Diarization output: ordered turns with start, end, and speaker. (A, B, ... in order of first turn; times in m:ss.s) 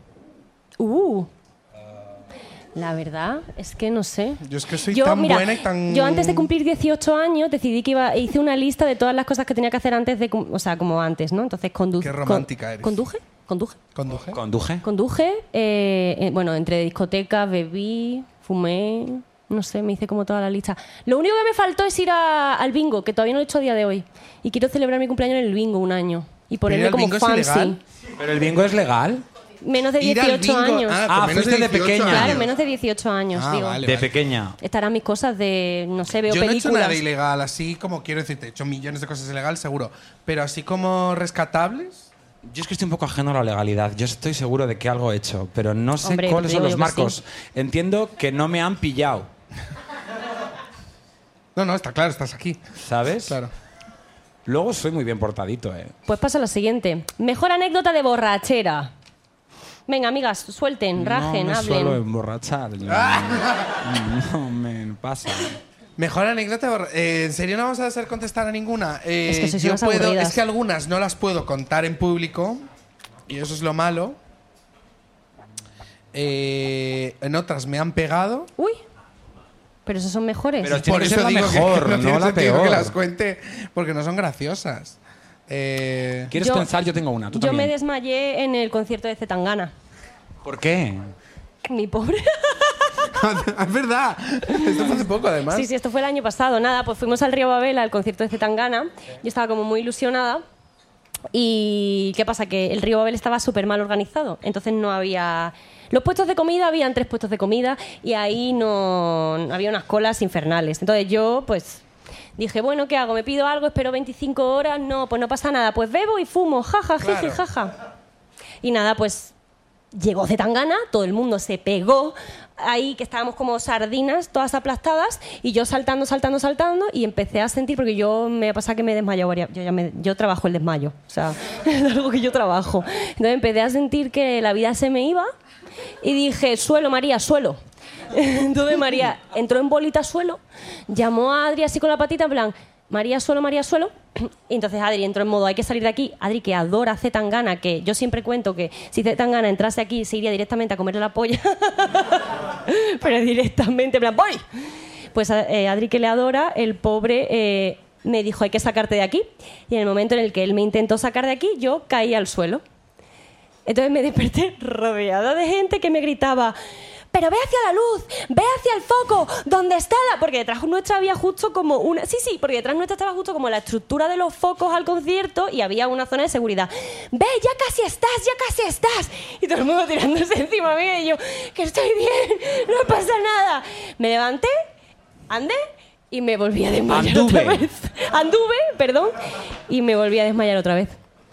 0:00.8-0:01.3 A
0:02.8-0:13.8 A
0:04.4-0:06.5 B
0:12.0-0:13.0 B
0:14.0-0:14.4 B
0:14.3-0:14.9 C
0:14.8-0:27.8 A
0:26.7-0:27.8 B
0:28.2-0:29.2 C
0:29.6-0:31.0 A
0:30.0-0:32.5 B
0:31.1-0:32.4 C
0:32.1-0:33.8 A
0:33.3-0:34.1 B
0:33.8-0:34.6 C
0:34.6-0:37.0 A
0:36.3-0:42.1 B
0:42.4-0:49.3 C
0:46.0-0:47.2 A
0:51.6-0:52.6 B
0:52.8-0:53.4 C
0:53.2-0:53.5 B
0:54.4-0:56.0 C
0:56.1-0:58.9 A
0:59.9-1:02.0 A
1:01.0-1:05.6 C
1:02.9-1:03.8 B
1:06.0-1:12.6 B
1:09.3-1:10.4 A
1:13.3-1:14.2 B
1:16.1-1:18.5 B
1:19.9-1:20.8 A
1:20.6-1:23.0 C
1:20.8-1:26.3 B
1:26.3-1:27.7 C
1:26.4-1:26.7 A
1:27.3-1:29.7 A
1:30.4-1:31.1 C
1:31.7-1:33.1 A
1:33.1-1:35.7 B
1:35.5-1:40.4 A
1:41.3-1:51.8 A
1:52.4-1:57.7 A
1:57.0-1:57.4 B
1:58.6-1:59.3 A
1:59.9-2:15.3 A
2:16.0-2:17.6 A
2:18.1-2:34.4 A
2:35.1-2:42.6 A
2:43.7-2:46.6 A
2:47.1-3:04.6 A
3:05.3-3:09.2 A
3:06.9-3:07.7 C
3:09.7-3:11.0 A